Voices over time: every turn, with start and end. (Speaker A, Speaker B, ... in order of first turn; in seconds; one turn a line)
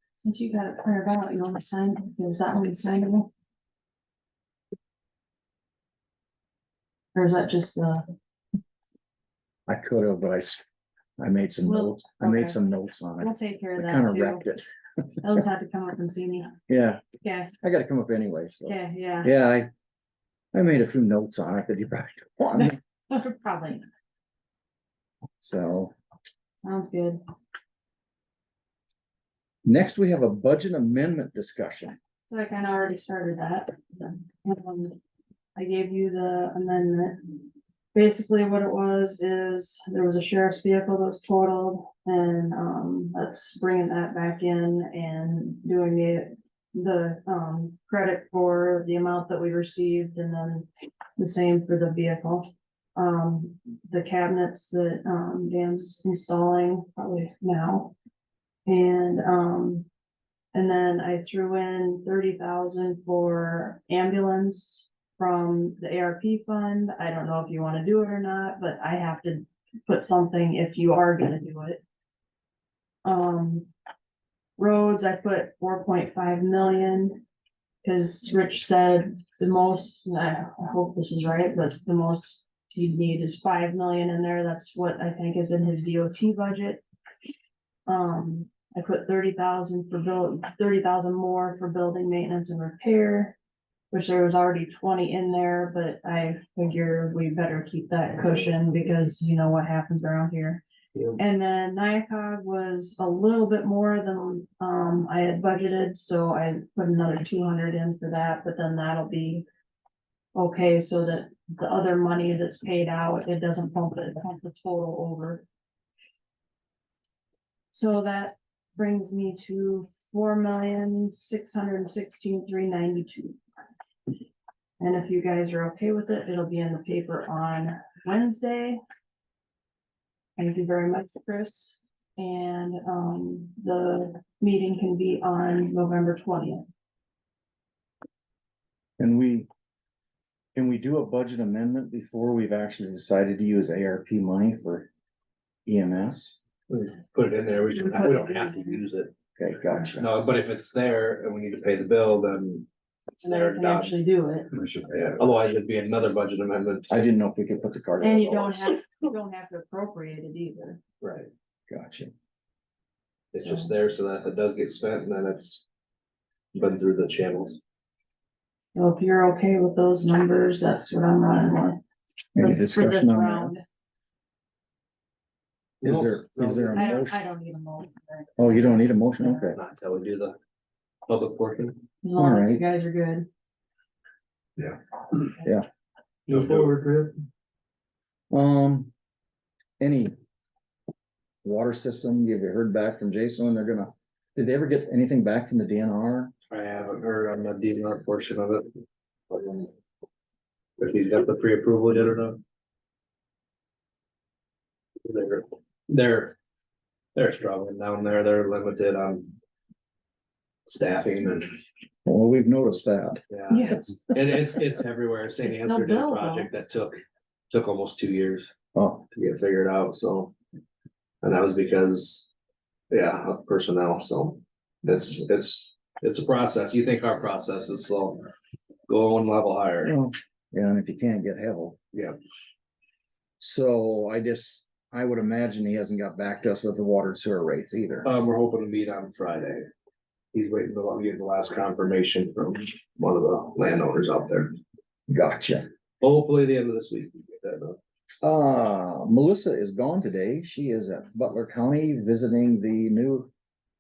Speaker A: 0.2-3.3
Speaker A: 7.1-8.1
Speaker B: 9.7-10.6
Speaker B: 11.2-14.7
Speaker A: 11.7-12.6
Speaker A: 13.2-14.4
Speaker A: 15.2-16.6
Speaker B: 16.7-17.1
Speaker A: 17.2-17.5
Speaker B: 17.6-19.7
Speaker A: 18.7-19.3
Speaker B: 20.5-22.8
Speaker A: 22.6-23.9
Speaker B: 25.4-25.9
Speaker A: 26.6-27.2
Speaker B: 29.6-32.0
Speaker A: 32.3-35.0
Speaker A: 35.5-37.4
Speaker A: 37.9-57.9
Speaker A: 58.7-59.9
Speaker A: 60.5-71.8
Speaker A: 73.0-73.7
Speaker A: 74.6-77.2
Speaker A: 77.8-86.8
Speaker A: 87.9-93.4
Speaker A: 93.9-100.6
Speaker A: 101.2-109.5
Speaker A: 110.3-115.5
Speaker A: 117.7-123.4
Speaker A: 124.8-128.8
Speaker A: 130.4-136.7
Speaker B: 139.0-139.5
Speaker B: 140.6-144.9
Speaker B: 145.7-146.4
Speaker C: 146.7-149.1
Speaker A: 147.8-148.8
Speaker B: 149.4-150.1
Speaker C: 150.0-153.9
Speaker A: 153.2-154.5
Speaker C: 154.8-157.1
Speaker B: 156.9-158.7
Speaker A: 158.0-160.8
Speaker C: 161.0-161.3
Speaker B: 161.7-162.1
Speaker C: 163.3-165.6
Speaker A: 163.4-163.7
Speaker C: 166.5-167.6
Speaker A: 168.8-171.8
Speaker B: 172.4-173.5
Speaker A: 172.4-173.6
Speaker C: 175.8-176.8
Speaker B: 175.8-177.2
Speaker A: 176.8-179.3
Speaker B: 178.4-179.6
Speaker C: 179.4-180.4
Speaker C: 181.1-181.8
Speaker A: 182.0-183.3
Speaker B: 182.2-182.6
Speaker C: 186.3-187.2
Speaker B: 188.3-188.9
Speaker B: 189.8-190.1
Speaker B: 191.4-196.3
Speaker C: 196.5-198.7
Speaker C: 199.3-199.7
Speaker C: 200.8-202.4
Speaker C: 205.1-206.4
Speaker C: 207.2-209.3
Speaker C: 210.7-211.6
Speaker B: 212.1-213.2
Speaker C: 213.3-218.5
Speaker A: 213.5-213.9
Speaker A: 215.4-216.5
Speaker B: 218.8-219.1
Speaker C: 219.1-220.3
Speaker C: 221.2-222.3
Speaker C: 222.9-228.3
Speaker C: 228.9-229.9
Speaker B: 229.8-231.8
Speaker B: 233.4-238.1
Speaker C: 238.0-239.7
Speaker C: 240.3-244.6
Speaker B: 245.1-245.7
Speaker C: 246.0-247.8
Speaker B: 248.2-253.3